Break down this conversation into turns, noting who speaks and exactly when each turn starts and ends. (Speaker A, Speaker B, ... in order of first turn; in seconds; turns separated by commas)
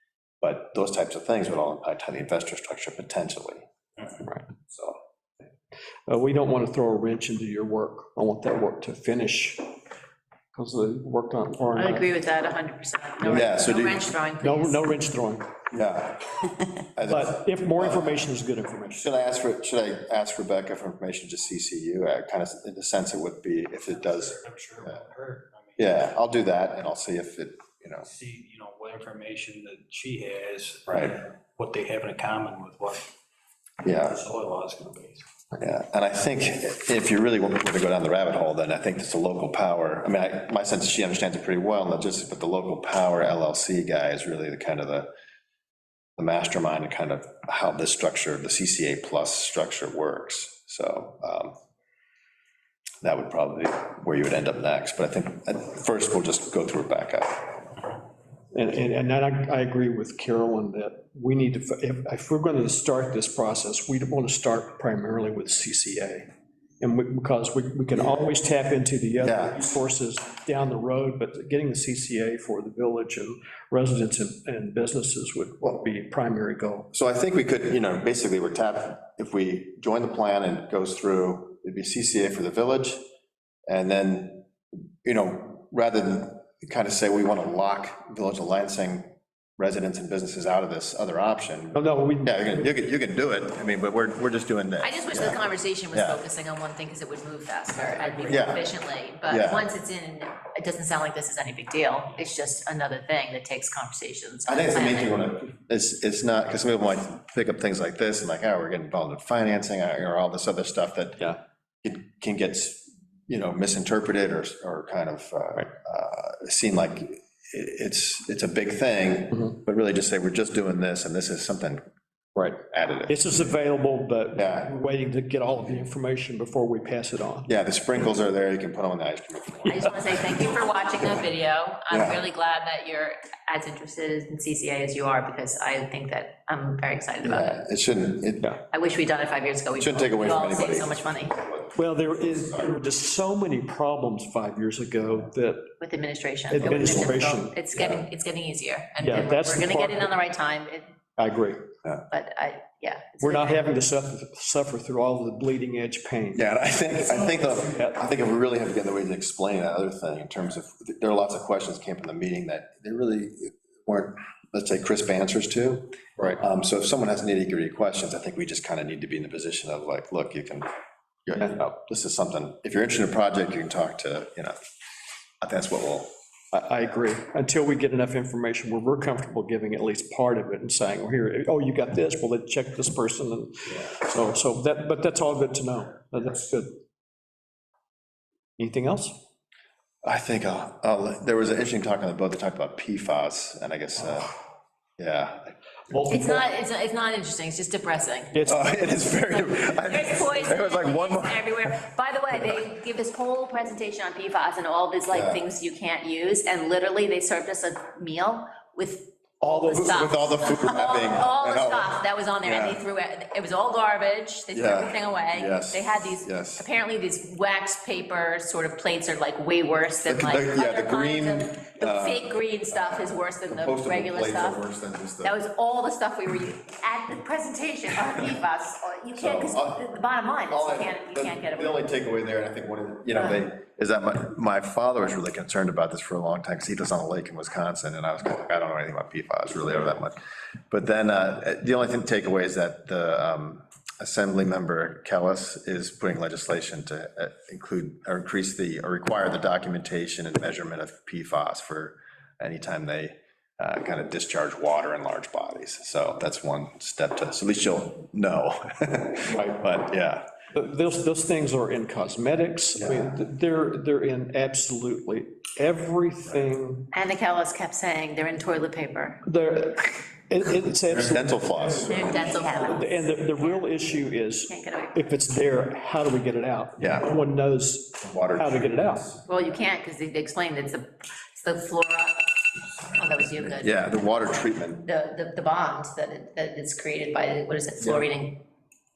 Speaker A: 0.4-3.6, Speaker A: 4.7-5.0, Speaker B: 6.1-9.6, Speaker B: 10.5-12.1, Speaker C: 11.7-14.8, Speaker A: 13.2-14.0, Speaker B: 14.4-15.5, Speaker A: 15.7-18.3, Speaker B: 17.1-19.1, Speaker A: 19.0-25.0, Speaker D: 24.1-25.8, Speaker A: 25.8-28.1, Speaker D: 28.0-33.1, Speaker A: 30.9-31.2, Speaker A: 33.8-34.2, Speaker D: 33.9-35.2, Speaker A: 35.5-45.1, Speaker A: 46.2-51.5, Speaker A: 53.0-57.7, Speaker B: 58.5-66.3, Speaker B: 66.8-76.9, Speaker A: 69.2-69.7, Speaker A: 76.9-83.0, Speaker A: 83.7-84.5, Speaker A: 85.0-96.2, Speaker B: 91.7-92.7, Speaker C: 94.8-105.2, Speaker A: 98.2-98.7, Speaker A: 99.3-99.7, Speaker A: 104.5-121.8, Speaker B: 122.3-127.5, Speaker A: 122.6-123.2, Speaker A: 124.3-124.7, Speaker A: 127.5-130.1, Speaker C: 129.6-137.5, Speaker A: 131.9-132.2, Speaker A: 137.2-138.6, Speaker C: 138.7-141.3, Speaker A: 139.8-142.7, Speaker B: 141.8-145.7, Speaker C: 145.8-151.0, Speaker B: 146.5-147.6, Speaker B: 149.0-150.1, Speaker B: 151.2-151.7, Speaker C: 152.1-153.7, Speaker B: 153.2-156.4, Speaker A: 156.3-170.7, Speaker A: 171.2-174.6, Speaker A: 175.4-176.1, Speaker B: 176.5-186.7, Speaker B: 188.6-189.2, Speaker A: 190.0-194.4, Speaker A: 195.0-195.6, Speaker B: 195.9-196.4, Speaker C: 196.1-198.5, Speaker B: 198.3-198.7, Speaker A: 198.5-201.7, Speaker C: 199.1-224.6, Speaker A: 205.1-205.4, Speaker A: 209.5-212.8, Speaker A: 214.5-216.6, Speaker A: 220.1-225.4, Speaker C: 225.2-231.8, Speaker A: 229.1-229.8, Speaker A: 230.5-240.2, Speaker A: 240.7-260.3, Speaker B: 259.3-259.6, Speaker B: 260.5-266.9, Speaker A: 262.8-263.1, Speaker C: 266.9-269.2, Speaker B: 269.2-271.9, Speaker A: 270.9-272.5, Speaker C: 271.9-273.6, Speaker B: 272.5-279.2, Speaker C: 274.4-275.1, Speaker A: 276.8-277.1, Speaker A: 278.0-279.2, Speaker C: 279.3-282.3, Speaker C: 282.9-284.3, Speaker A: 283.4-284.9, Speaker C: 284.8-288.4